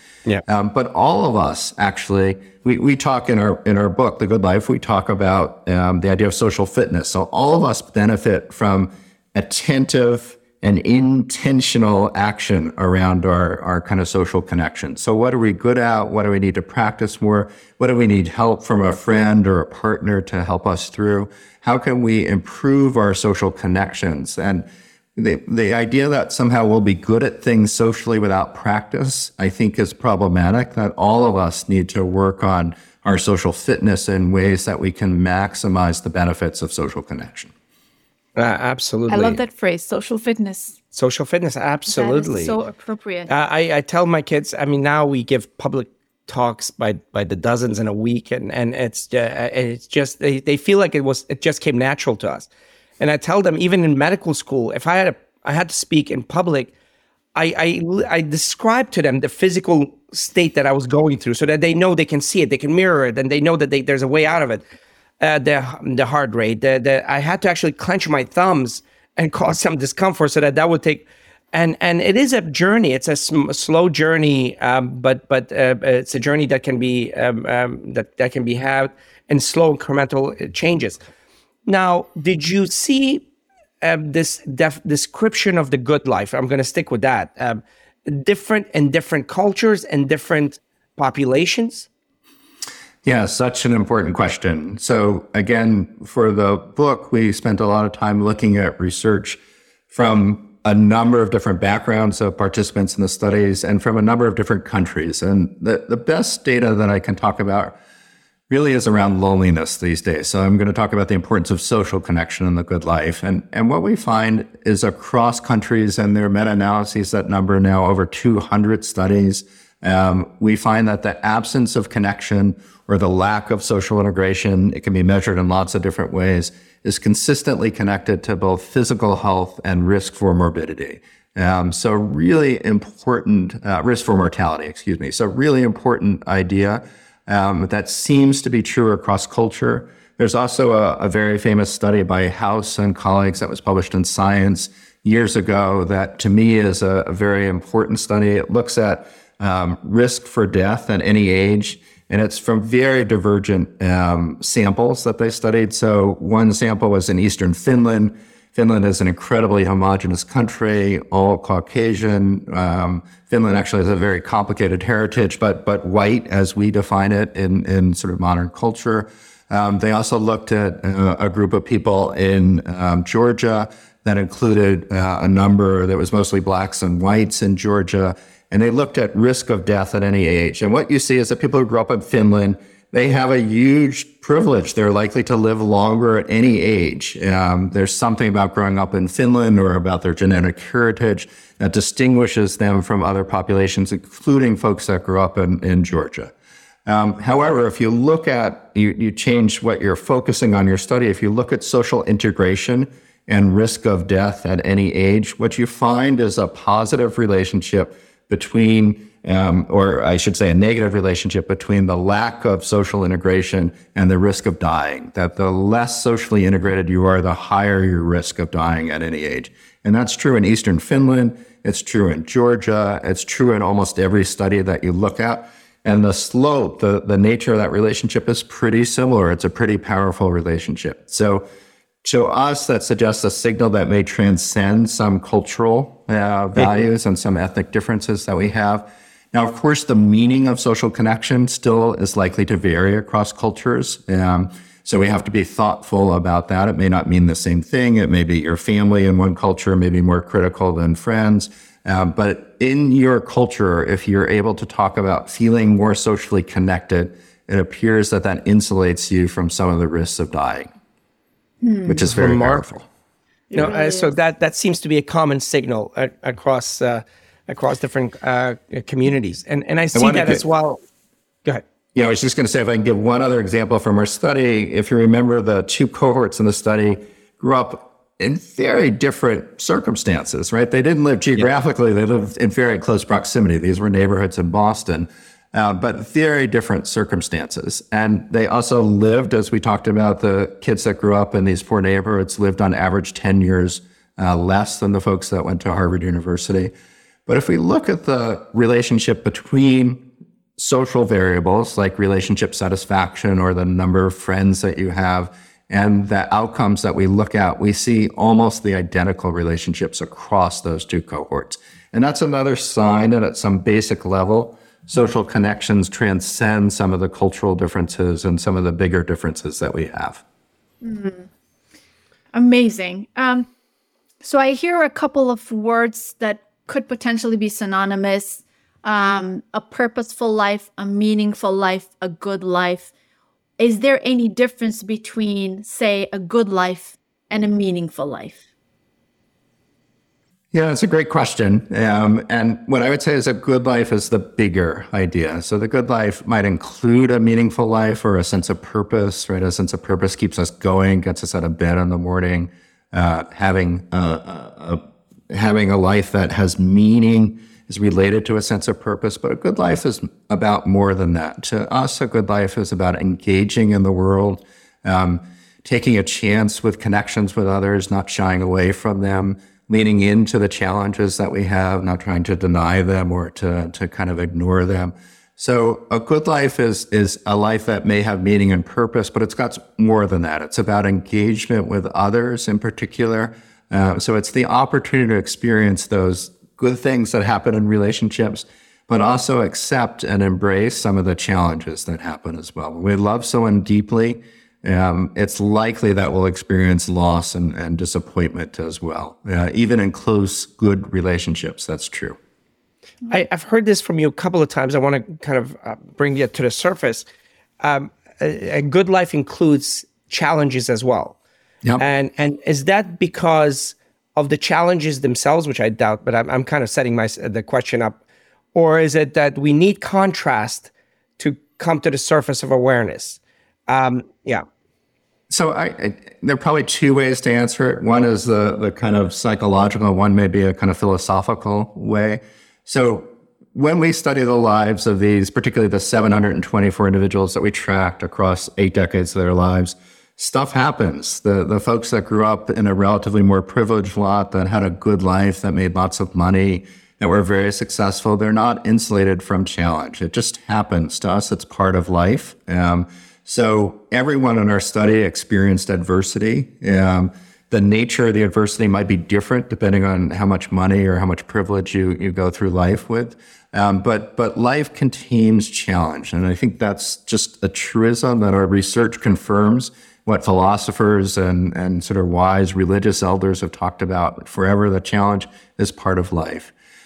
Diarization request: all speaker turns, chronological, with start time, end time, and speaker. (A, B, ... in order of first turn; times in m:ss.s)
0:00.4-0:24.6 A
0:25.2-0:37.5 A
0:38.4-0:39.4 B
0:39.1-0:40.8 C
0:40.9-0:42.6 B
0:41.9-0:43.3 C
0:43.3-0:52.5 B
0:53.0-0:56.7 B
0:57.3-1:04.6 B
1:05.2-1:21.0 B
1:21.6-1:23.2 B
1:23.8-1:31.9 B
1:33.0-1:39.4 A
1:39.9-1:47.7 A
1:48.5-3:16.3 A
3:16.8-3:51.4 A
3:52.0-4:20.7 A
4:21.6-4:22.0 C
4:21.8-4:22.9 A
4:22.1-4:22.6 B
4:23.5-4:24.1 C
4:23.5-4:30.8 B
4:29.9-4:30.4 A
4:31.9-4:56.7 A
4:57.3-5:00.0 A
5:00.6-5:20.2 A
5:20.8-5:21.3 C
5:22.3-5:23.5 C
5:24.2-5:32.9 C
5:33.6-5:38.4 C
5:40.5-6:42.2 A
6:43.1-6:47.0 B
6:47.6-6:51.2 B
6:51.8-6:58.0 B
6:58.5-7:04.4 B
7:05.3-7:56.5 A